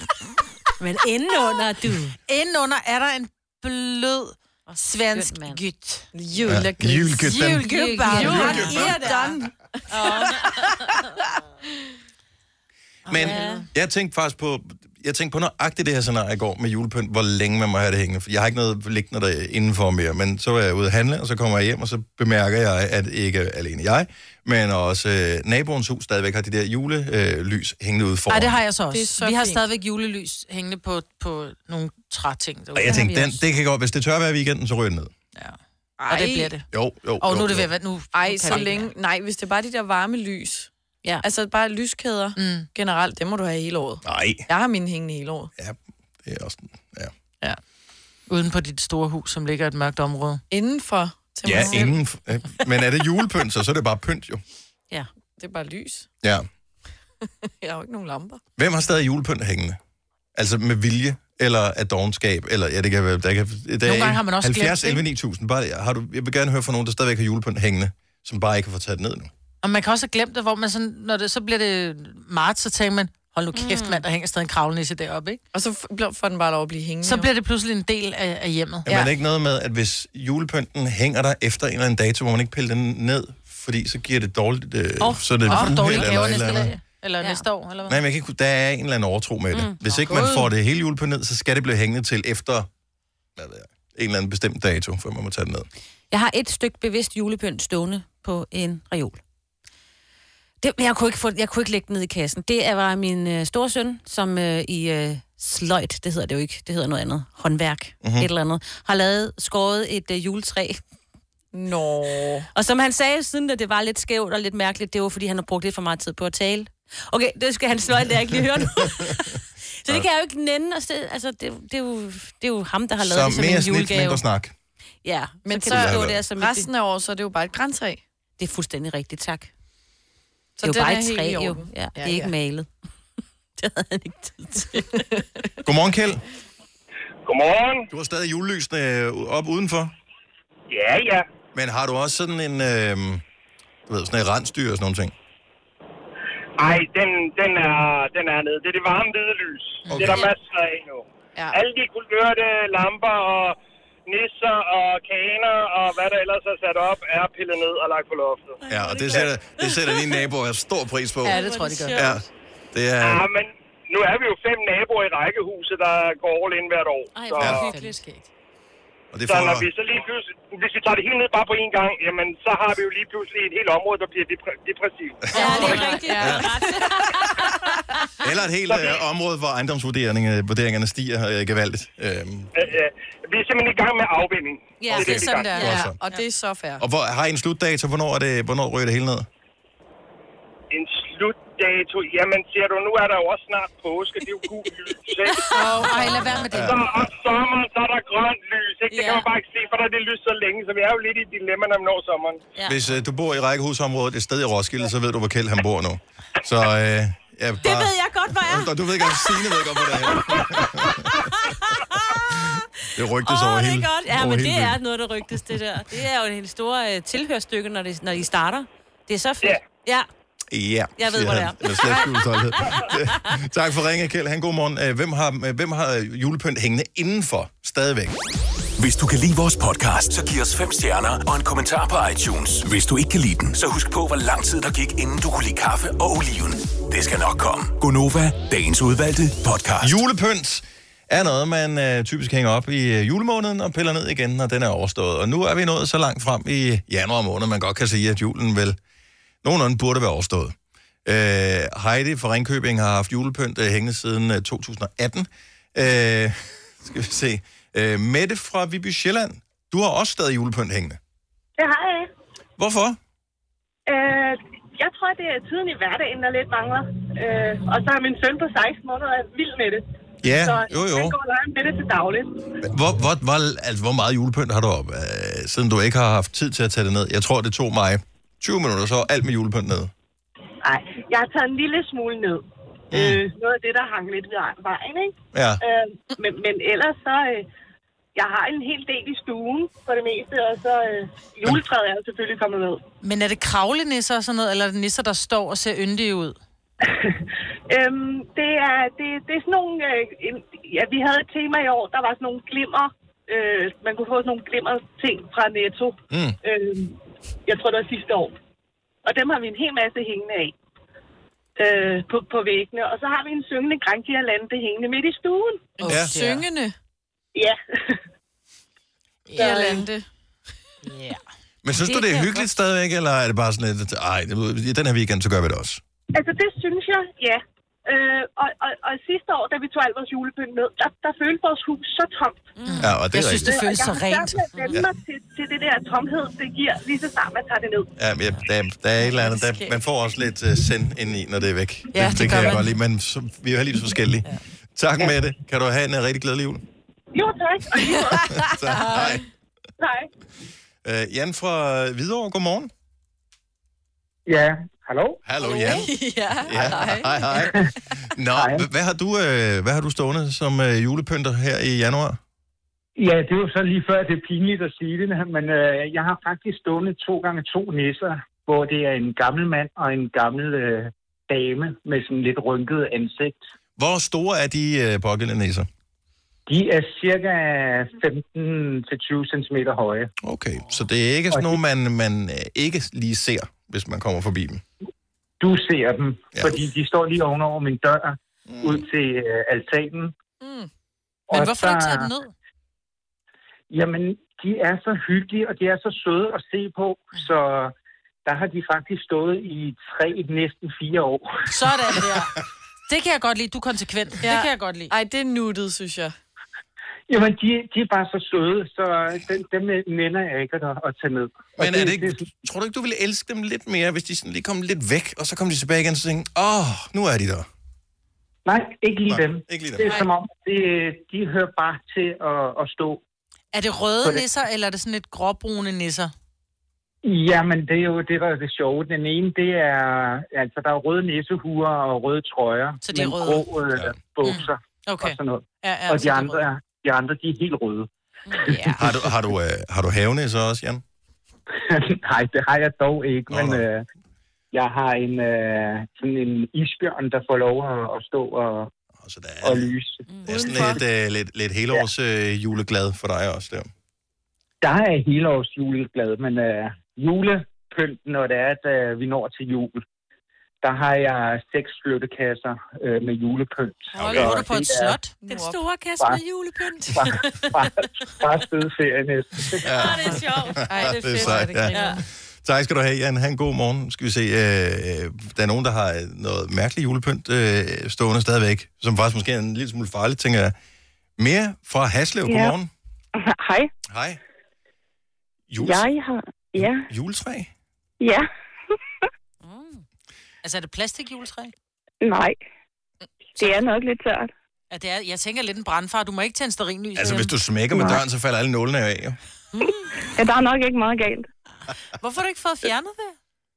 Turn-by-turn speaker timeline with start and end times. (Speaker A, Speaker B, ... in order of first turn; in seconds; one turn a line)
Speaker A: 0.8-2.1
Speaker B: 0.8-6.1
Speaker A: 4.7-5.6
Speaker C: 6.1-7.4
Speaker D: 6.4-7.7
Speaker B: 7.2-9.4
Speaker A: 7.5-9.3
Speaker C: 8.1-10.9
Speaker D: 8.2-8.8
Speaker A: 9.9-10.9
Speaker B: 13.1-13.7
Speaker D: 13.1-28.6
Speaker A: 13.1-13.7
Speaker B: 28.3-33.1
Speaker C: 28.9-29.6
Speaker D: 32.7-35.1
Speaker A: 32.9-33.3
Speaker B: 35.4-36.6
Speaker C: 36.0-36.5
Speaker D: 36.7-37.7
Speaker B: 37.2-38.9
Speaker C: 38.1-40.7
Speaker C: 41.2-45.5
Speaker B: 42.4-42.7
Speaker D: 44.0-44.5
Speaker D: 45.6-47.1
Speaker B: 48.3-50.4
Speaker C: 50.5-52.0
Speaker D: 51.4-54.4
Speaker C: 55.4-56.1
Speaker D: 56.2-56.5
Speaker C: 57.5-58.4
Speaker D: 58.6-59.8
Speaker D: 60.3-69.3
Speaker B: 63.8-65.0
Speaker B: 69.6-75.4
Speaker A: 73.5-74.0
Speaker C: 75.5-77.3
Speaker B: 77.0-78.9
Speaker D: 78.8-86.7
Speaker C: 78.9-79.1
Speaker B: 85.0-88.0
Speaker A: 87.2-87.4
Speaker D: 87.9-92.7
Speaker B: 89.9-90.5
Speaker D: 93.3-95.7
Speaker A: 96.1-99.2
Speaker A: 100.6-110.8
Speaker D: 108.0-108.3
Speaker C: 111.5-112.5
Speaker A: 112.5-124.2
Speaker D: 118.9-119.1
Speaker D: 123.0-124.5
Speaker A: 125.0-126.7
Speaker C: 125.4-128.0
Speaker D: 125.7-126.2
Speaker A: 128.4-129.5
Speaker C: 130.6-132.3
Speaker A: 130.6-132.7
Speaker A: 133.6-135.1
Speaker C: 134.7-135.6
Speaker D: 135.6-136.2
Speaker E: 137.2-137.9
Speaker D: 137.9-139.9
Speaker E: 140.7-141.2
Speaker D: 141.5-143.2
Speaker D: 143.9-145.1
Speaker E: 146.6-158.6
Speaker B: 149.8-150.1
Speaker D: 149.9-150.3
Speaker A: 158.6-160.2
Speaker D: 158.7-161.4
Speaker A: 161.2-162.2
Speaker B: 161.2-162.1
Speaker D: 161.9-163.2
Speaker E: 163.0-167.6
Speaker A: 167.1-168.0
Speaker B: 167.6-168.2
Speaker D: 169.1-169.7
Speaker E: 169.3-175.8
Speaker C: 175.3-177.8
Speaker A: 175.3-177.7
Speaker D: 175.5-176.5
Speaker D: 178.2-182.5
Speaker E: 178.7-179.0
Speaker E: 182.5-185.6
Speaker A: 184.8-185.9
Speaker D: 184.9-186.0
Speaker C: 185.0-186.8
Speaker D: 186.8-189.2
Speaker E: 190.7-195.6
Speaker B: 195.5-196.8
Speaker C: 195.5-196.3
Speaker D: 196.4-196.8
Speaker E: 196.5-202.4
Speaker C: 198.9-199.2
Speaker D: 202.7-214.8
Speaker A: 207.6-210.1
Speaker A: 210.8-212.4
Speaker A: 213.2-220.1
Speaker D: 220.5-228.2
Speaker A: 221.0-223.0
Speaker F: 228.8-240.0
Speaker D: 239.8-248.8
Speaker D: 249.4-261.0
Speaker G: 261.6-262.1
Speaker D: 262.6-263.0
Speaker G: 263.9-272.4
Speaker D: 270.2-271.1
Speaker D: 272.6-279.9
Speaker G: 280.6-287.4
Speaker D: 282.9-283.2
Speaker D: 285.3-285.6
Speaker G: 288.1-292.8
Speaker B: 293.0-296.4
Speaker G: 296.8-308.4
Speaker D: 306.1-306.4
Speaker G: 309.0-310.5
Speaker G: 311.6-315.8
Speaker C: 315.8-316.7
Speaker B: 315.8-316.5
Speaker D: 315.9-316.1
Speaker G: 317.3-318.0
Speaker B: 319.3-319.9
Speaker C: 319.3-320.0
Speaker G: 319.4-319.8
Speaker B: 320.8-321.2
Speaker D: 321.6-325.8
Speaker A: 321.9-322.3
Speaker G: 326.1-332.6
Speaker A: 332.6-332.9
Speaker B: 332.6-334.5
Speaker D: 332.8-333.6
Speaker G: 333.5-337.9
Speaker D: 338.0-346.6
Speaker C: 339.0-339.8
Speaker B: 341.9-342.7
Speaker G: 347.1-348.4
Speaker C: 347.7-349.2
Speaker D: 348.3-349.2
Speaker G: 349.8-350.1
Speaker D: 350.8-352.7
Speaker H: 354.2-355.2
Speaker D: 355.2-362.2
Speaker C: 355.4-357.6
Speaker H: 358.3-358.6
Speaker H: 362.9-373.4
Speaker D: 373.8-375.7
Speaker H: 376.5-380.1
Speaker D: 380.2-384.6
Speaker H: 381.3-381.6
Speaker H: 385.4-390.1
Speaker D: 388.5-388.8
Speaker C: 390.4-390.7
Speaker H: 391.3-392.1
Speaker B: 391.3-392.3
Speaker H: 393.7-397.7
Speaker H: 398.2-401.9
Speaker B: 401.5-404.9
Speaker C: 404.2-406.1
Speaker H: 407.1-412.2
Speaker D: 411.6-417.5
Speaker H: 418.4-423.0
Speaker D: 419.1-420.0
Speaker B: 419.8-420.1
Speaker B: 423.5-426.1
Speaker H: 427.0-437.9
Speaker B: 432.8-433.5
Speaker B: 434.2-436.5
Speaker B: 438.5-438.8
Speaker D: 438.8-440.8
Speaker H: 441.6-443.8
Speaker D: 443.3-443.6
Speaker H: 444.5-448.7
Speaker D: 449.0-449.7
Speaker H: 449.4-450.0
Speaker D: 450.2-453.7
Speaker C: 450.2-450.8
Speaker H: 454.6-459.8
Speaker H: 460.6-465.0
Speaker C: 463.9-464.4
Speaker D: 464.0-464.3
Speaker B: 464.0-465.1
Speaker C: 465.2-465.6
Speaker A: 465.2-467.3
Speaker H: 466.9-469.7
Speaker D: 469.6-480.5
Speaker A: 469.6-472.0
Speaker C: 470.0-472.0
Speaker D: 481.2-482.7
Speaker I: 482.2-482.6
Speaker I: 483.2-483.7
Speaker D: 483.9-484.2
Speaker D: 485.5-485.9
Speaker I: 485.6-486.9
Speaker D: 486.6-487.5
Speaker I: 488.0-488.3
Speaker A: 489.4-489.8
Speaker B: 490.4-491.5
Speaker I: 492.0-492.4
Speaker I: 493.4-494.3
Speaker B: 494.7-497.3
Speaker D: 497.0-499.2
Speaker I: 497.7-498.0
Speaker I: 500.1-501.3
Speaker B: 502.0-503.1